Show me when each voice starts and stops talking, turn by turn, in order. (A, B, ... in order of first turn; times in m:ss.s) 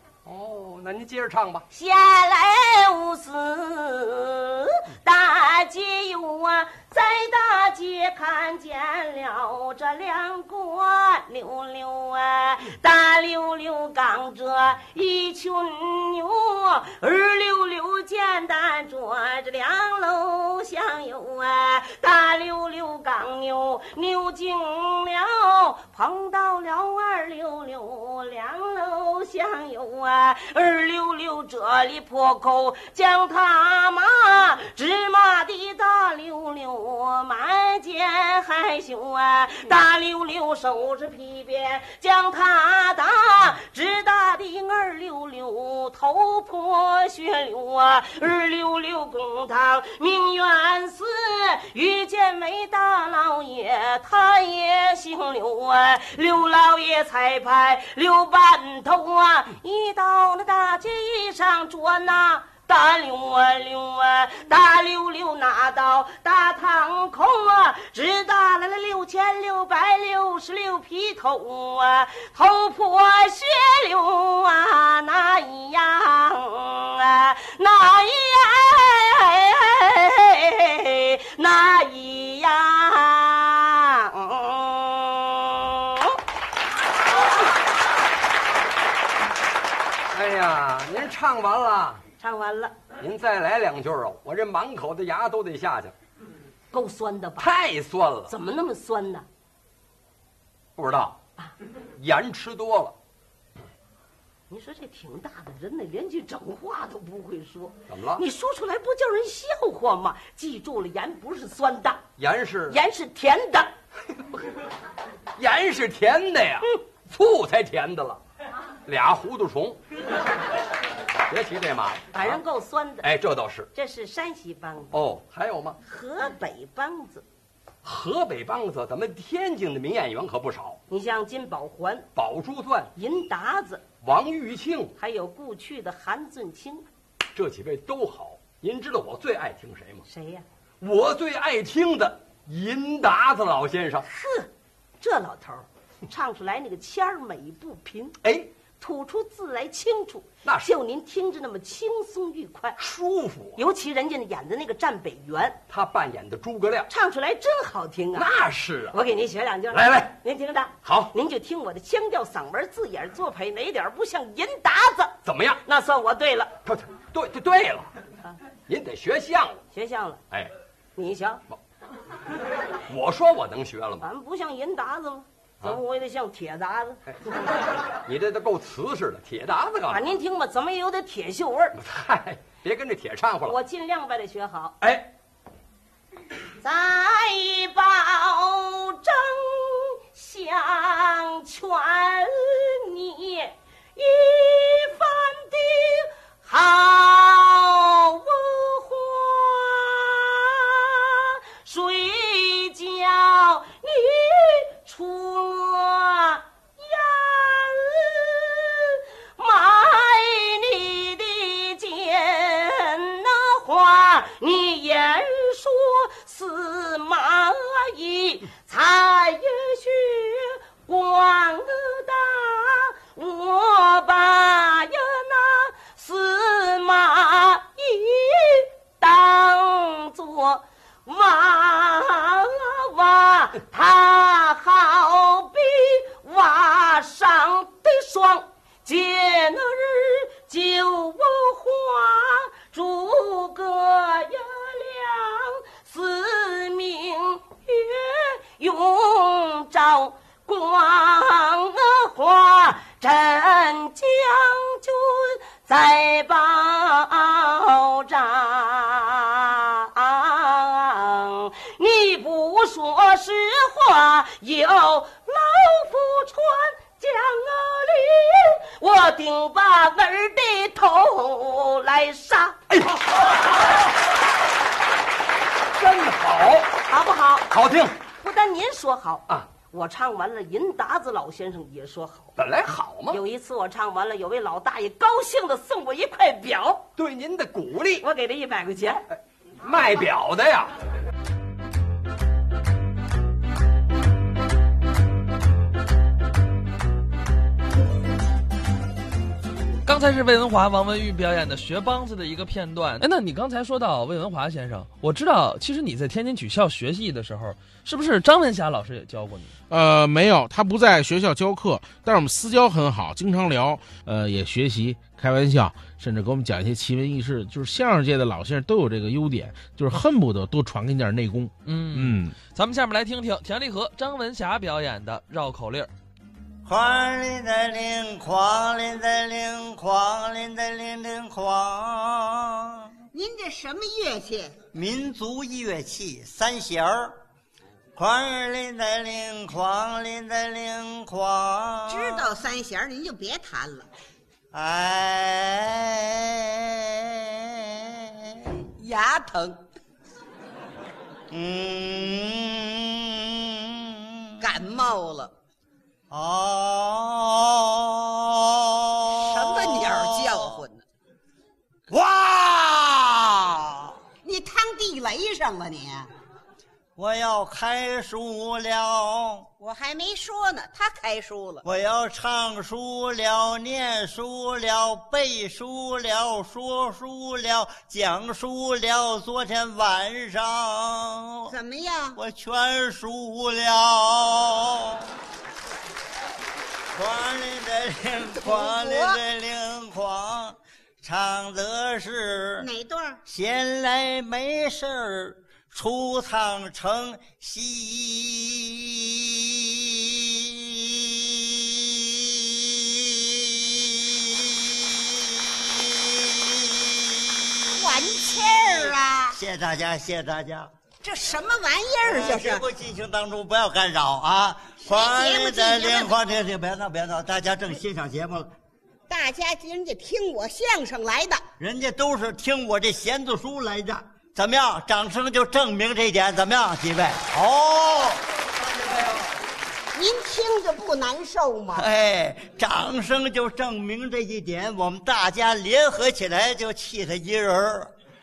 0:00.2-0:01.6 A
0:01.7-1:26.2 B
1:30.1-1:32.0 A
1:32.2-1:32.8 B
1:33.0-1:35.9 A
1:36.7-1:37.5 B
1:37.4-1:38.3 A
1:38.3-1:39.3 B
1:40.8-1:41.2 A
1:42.0-1:43.0 A
1:44.5-1:52.0 B
1:47.9-1:48.2 A
1:52.2-1:52.8 A
1:52.7-1:53.7 B
1:55.4-1:58.2 A
1:58.9-1:59.8 A
2:01.3-2:02.4 A
2:02.1-2:03.1 B
2:03.0-2:03.7 A
2:03.7-2:04.9 B
2:04.9-2:05.8 A
2:05.8-2:07.2 B
2:07.8-2:10.8 A
2:10.9-2:12.1 B
2:12.2-2:12.9 A
2:13.0-2:13.8 B
2:14.0-2:14.9 A
2:15.0-2:16.8 B
2:17.3-2:20.1 A
2:20.1-2:20.4 B
2:20.8-2:24.1 A
2:24.1-2:24.5 B
2:25.0-2:28.2 B
2:28.2-2:28.5 A
2:28.8-2:32.8 B
2:30.4-2:30.7 A
2:32.8-2:33.6 A
2:33.6-2:35.6 B
2:35.7-2:36.9 A
2:36.9-2:38.3 B
2:38.2-2:39.0 A
2:38.9-2:45.1 B
2:39.7-2:40.1 A
2:40.8-2:41.1 A
2:45.3-2:45.6 A
2:45.6-2:46.5 B
2:46.7-2:47.9 A
2:48.7-2:49.6 A
2:49.7-2:50.2 B
2:51.0-2:51.4 B
2:52.9-2:54.1 A
2:54.0-2:57.0 B
2:58.0-3:00.1 A
2:59.9-3:01.8 B
3:01.8-3:03.6 A
3:03.5-3:04.8 B
3:04.8-3:05.1 A
3:06.6-4:32.6 B
4:32.7-4:33.0 A
4:35.8-4:36.7 A
4:36.9-4:37.5 B
4:37.5-4:38.0 A
4:38.2-4:42.3 B
4:42.4-4:43.2 A
4:43.1-4:46.8 B
4:47.0-4:48.1 A
4:48.0-4:49.0 B
4:49.6-4:50.8 A
4:59.8-5:09.5 C
5:09.7-5:22.4 D
5:21.6-5:25.9 C
5:26.6-5:32.9 E
5:33.1-5:34.6 F
5:34.7-5:37.2 E
5:38.0-5:42.3 E
5:41.9-5:43.9 F
5:44.5-5:48.5 E
5:48.8-5:49.6 F
5:51.3-5:54.4 E
5:54.4-5:55.3 F
5:56.1-6:00.6 E
5:59.2-6:00.8 F
6:01.9-6:03.9 E
6:04.2-6:06.1 F
6:07.0-6:09.5 E
6:09.6-6:11.6 F
6:11.6-6:21.5 E
6:21.5-6:22.2 F
6:22.2-6:25.1 E
6:26.9-6:32.7 E
6:28.4-6:29.2 F
6:32.6-6:33.2 F
6:33.3-6:45.1 E
6:45.9-6:46.7 E
6:47.7-6:49.4 F
6:48.7-6:50.7 E
6:51.0-6:52.6 F
6:52.0-6:58.5 E
6:54.8-6:56.1 F
6:59.1-7:01.4 F
7:01.6-7:09.3 E
7:09.9-7:11.8 F
7:11.7-7:17.9 E